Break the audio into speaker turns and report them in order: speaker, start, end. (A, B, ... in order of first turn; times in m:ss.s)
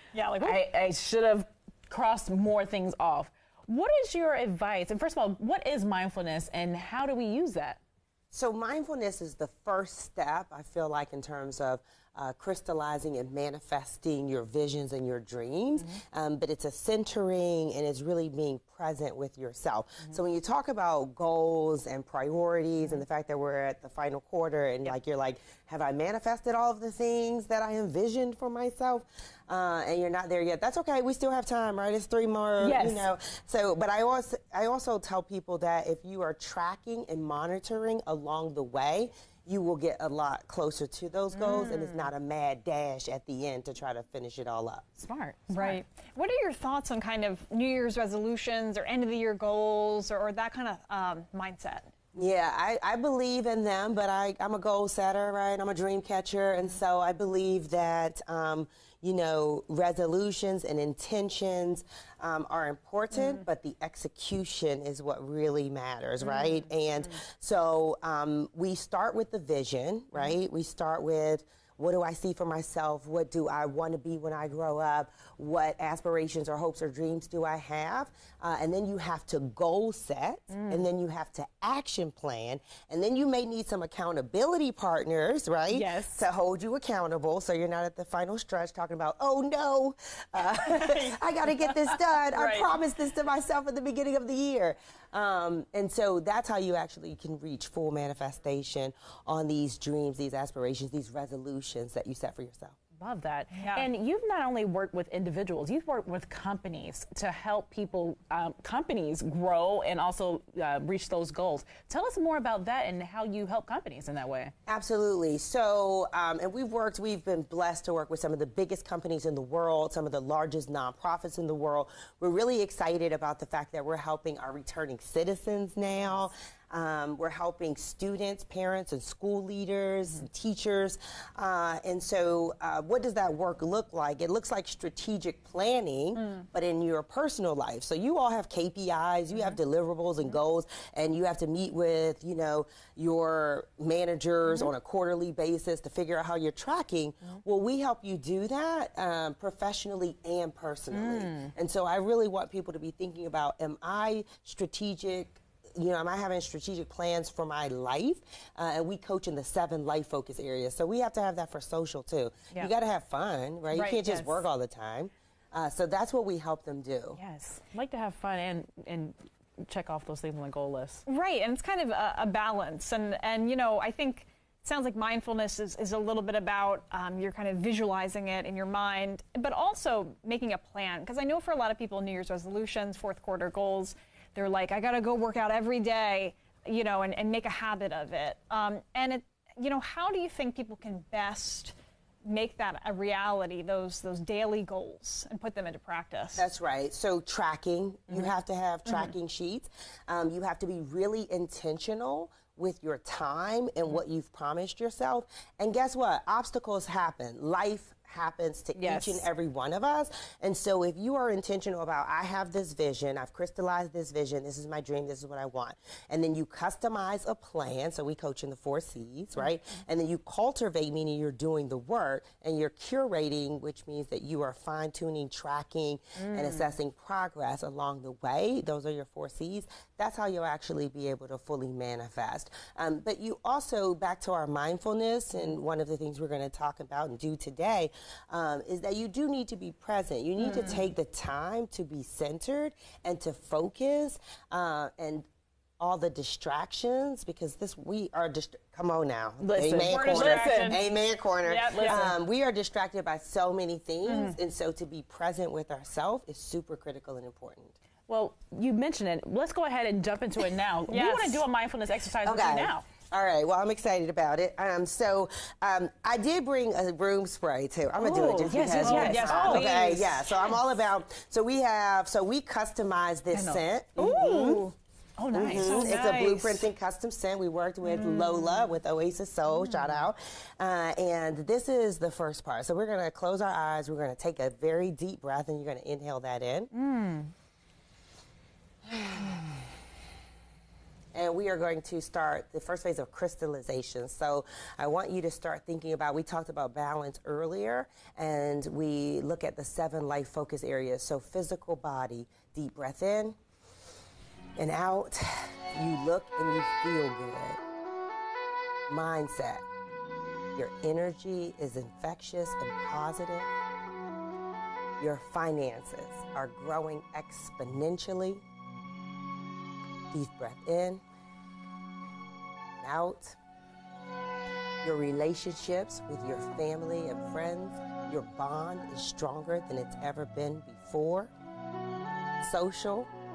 0:00.1-0:00.6 A
0:00.4-0:07.8 B
0:08.3-0:44.9 C
0:32.6-0:33.1 B
0:41.3-0:42.1 B
0:45.0-0:45.8 B
0:45.5-0:51.9 A
0:52.2-1:42.8 C
1:03.1-1:03.4 B
1:06.2-1:06.7 B
1:20.5-1:20.9 B
1:25.7-1:26.2 B
1:30.6-1:31.2 A
1:32.3-1:32.7 A
1:43.0-1:54.5 B
1:43.5-1:43.9 A
1:54.7-2:47.2 C
2:30.9-2:31.5 B
2:43.7-2:44.4 A
2:47.2-2:51.0 B
2:51.1-3:16.5 A
3:16.4-4:05.3 C
3:28.8-3:29.3 B
3:46.2-3:46.7 B
4:00.4-4:00.8 B
4:05.8-4:17.8 C
4:09.4-4:10.8 B
4:09.8-4:10.8 A
4:11.4-4:12.0 A
4:11.7-4:12.1 B
4:14.0-4:14.4 A
4:18.1-4:22.9 B
4:20.9-4:21.4 A
4:22.2-4:34.6 C
4:28.0-4:30.0 B
4:28.8-4:30.2 A
4:33.3-4:34.2 B
4:34.0-4:34.8 A
4:35.2-4:36.0 B
4:35.3-4:46.7 C
4:35.4-4:36.7 A
4:37.9-4:38.7 B
4:39.6-4:40.1 B
4:46.7-4:47.3 B
4:48.9-4:49.4 C
4:51.1-5:03.4 C
5:04.6-5:07.6 C
5:08.9-5:09.7 C
5:10.6-5:13.5 C
5:15.0-5:18.4 C
5:20.1-5:21.0 C
5:22.8-5:23.4 C
5:24.8-5:31.3 C
5:32.4-5:33.1 C